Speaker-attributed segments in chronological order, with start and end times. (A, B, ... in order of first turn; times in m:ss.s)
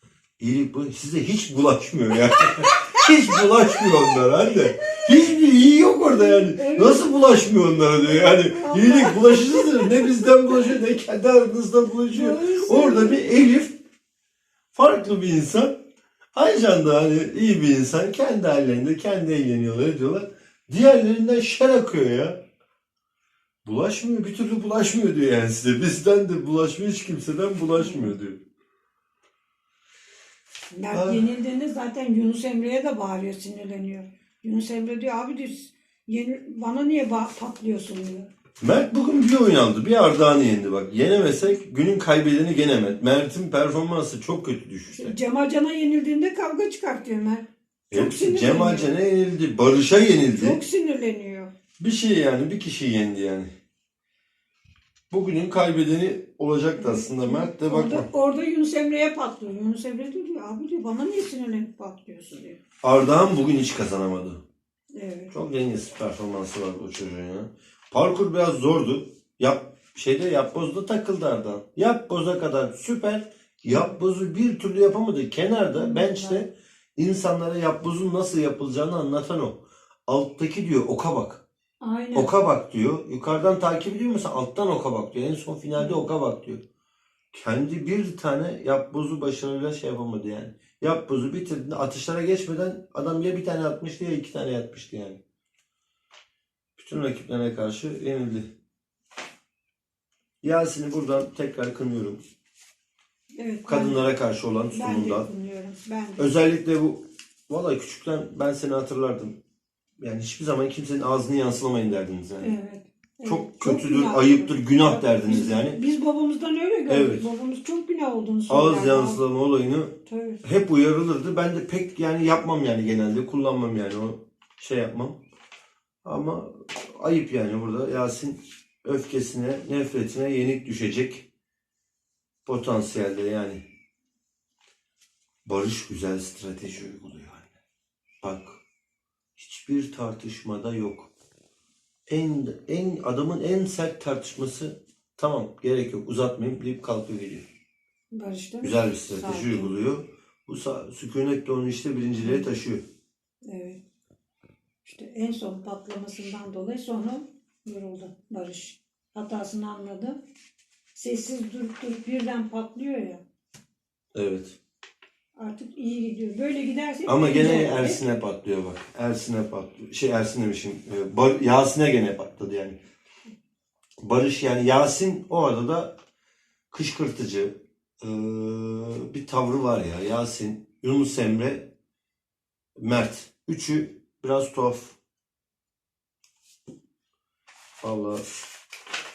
0:00.4-0:13.8 A
0:02.3-0:05.1 B
0:06.0-0:07.2 B
0:08.0-0:10.8 B
0:12.1-0:13.2 B
0:14.7-0:15.8 A
0:16.3-0:22.4 A
0:23.6-0:28.4 A
0:27.8-0:28.2 B
0:30.7-0:38.3 B
0:30.9-0:31.2 A
0:38.6-0:45.1 A
0:44.9-0:48.9 B
0:47.9-0:50.6 A
0:50.4-0:51.5 B
0:51.8-0:53.5 A
0:55.1-0:58.1 A
0:56.8-1:02.6 B
1:02.8-1:04.4 A
1:04.9-1:05.3 B
1:05.3-1:21.4 A
1:13.7-1:13.9 B
1:15.7-1:16.4 B
1:21.8-1:22.3 B
1:22.1-1:26.6 A
1:25.8-1:26.1 B
1:27.3-1:35.2 A
1:36.8-1:38.5 A
1:40.4-1:42.2 A
1:43.4-1:44.0 B
1:43.7-1:45.3 A
1:44.7-1:46.2 B
1:46.2-1:49.4 A
1:50.0-1:52.5 A
1:52.4-1:59.2 B
1:53.2-1:55.8 A
1:56.9-1:57.2 A
1:58.5-2:05.2 A
2:00.0-2:00.4 B
2:06.0-2:11.2 A
2:12.4-2:13.6 A
2:15.4-2:17.5 A
2:18.2-2:18.6 A
2:19.4-2:21.1 A
2:22.1-2:27.4 A
2:28.1-2:29.8 B
2:28.6-2:32.8 A
2:33.4-2:33.8 B
2:34.8-2:40.2 B
2:40.9-2:43.2 B
2:44.1-2:44.6 A
2:45.4-2:48.0 B
2:47.1-2:52.8 A
2:54.0-2:56.0 A
2:56.7-3:01.7 A
3:02.8-3:05.0 A
3:07.8-3:08.2 A